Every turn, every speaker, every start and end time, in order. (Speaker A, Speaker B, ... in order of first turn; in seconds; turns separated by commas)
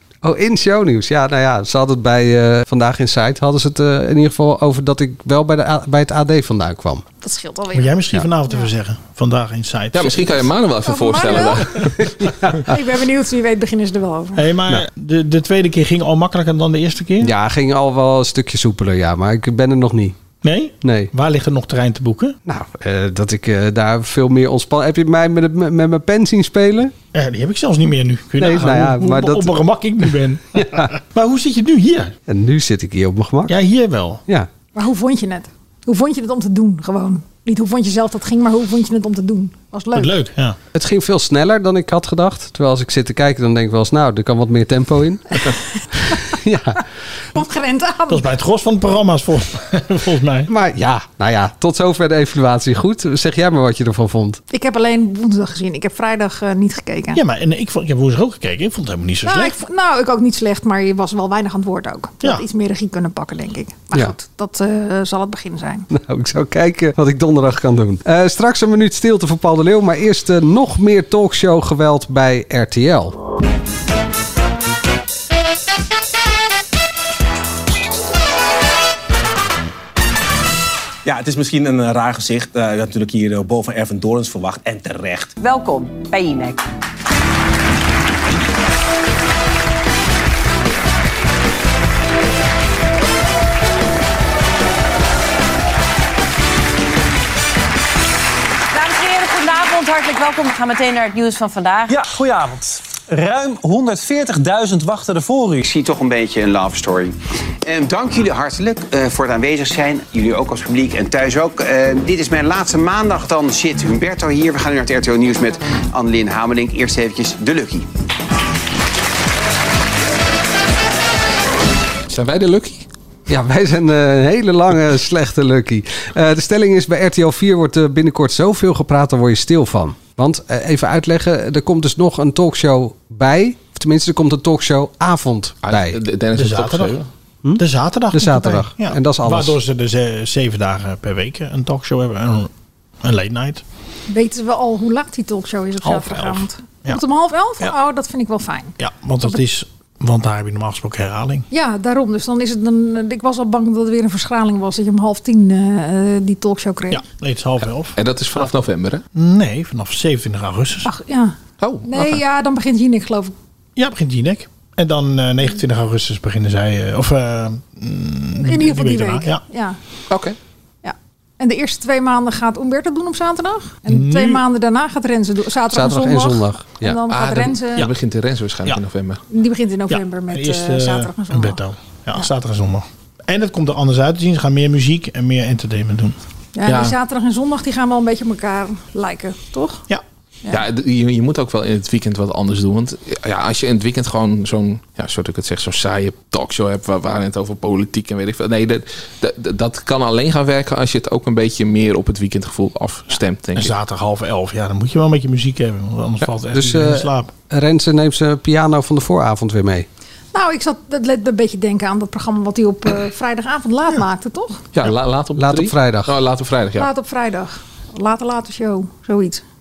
Speaker A: 0.2-7.0, Speaker B: 7.2-8.7, Speaker C: 7.7-10.4, Speaker D: 9.9-12.3, Speaker B: 10.8-11.9, Speaker A: 12.2-12.5, Speaker B: 12.6-14.5, Speaker C: 14.4-17.3, Speaker A: 17.2-20.2, Speaker C: 20.4-22.4, Speaker A: 20.8-21.1, Speaker A: 22.4-26.9, Speaker C: 27.1-32.1, Speaker A: 28.4-29.6, Speaker A: 30.6-30.9, Speaker A: 32.3-33.6, Speaker C: 33.5-34.2, Speaker B: 34.8-40.1, Speaker C: 39.9-40.6, Speaker A: 40.7-46.8, Speaker B: 47.4-48.3, Speaker C: 48.1-50.5, Speaker A: 50.5-54.4, Speaker B: 54.5-57.2, Speaker C: 57.1-59.6, Speaker B: 59.2-65.9, Speaker A: 65.9-73.2, Speaker E: 81.0-85.3, Speaker F: 85.4-86.6, Speaker F: 98.7-102.0, Speaker G: 101.9-105.7, Speaker H: 105.6-117.9, Speaker D: 122.1-122.9, Speaker A: 123.3-136.0, Speaker D: 135.6-137.1, Speaker C: 136.3-137.0, Speaker A: 137.4-139.6, Speaker C: 137.6-142.5, Speaker C: 143.0-143.6, Speaker B: 144.1-149.4, Speaker C: 145.8-147.0, Speaker C: 148.8-151.4, Speaker B: 151.5-157.0, Speaker C: 156.9-158.4, Speaker D: 157.9-159.0, Speaker C: 159.1-160.9, Speaker B: 160.8-163.3, Speaker D: 161.6-162.2, Speaker C: 163.8-169.4, Speaker B: 168.4-169.8, Speaker D: 170.1-170.4, Speaker B: 170.8-177.9, Speaker C: 173.9-174.4, Speaker A: 175.7-177.0, Speaker D: 177.2-179.2, Speaker B: 179.3-181.6, Speaker C: 179.9-186.2, Speaker B: 186.6-189.9, Speaker D: 186.7-186.9, Speaker D: 190.5-203.7, Speaker C: 203.6-207.3, Speaker A: 206.5-209.9, Speaker B: 210.3-214.6, Speaker D: 214.7-216.9, Speaker A: 215.4-216.1, Speaker B: 216.8-219.4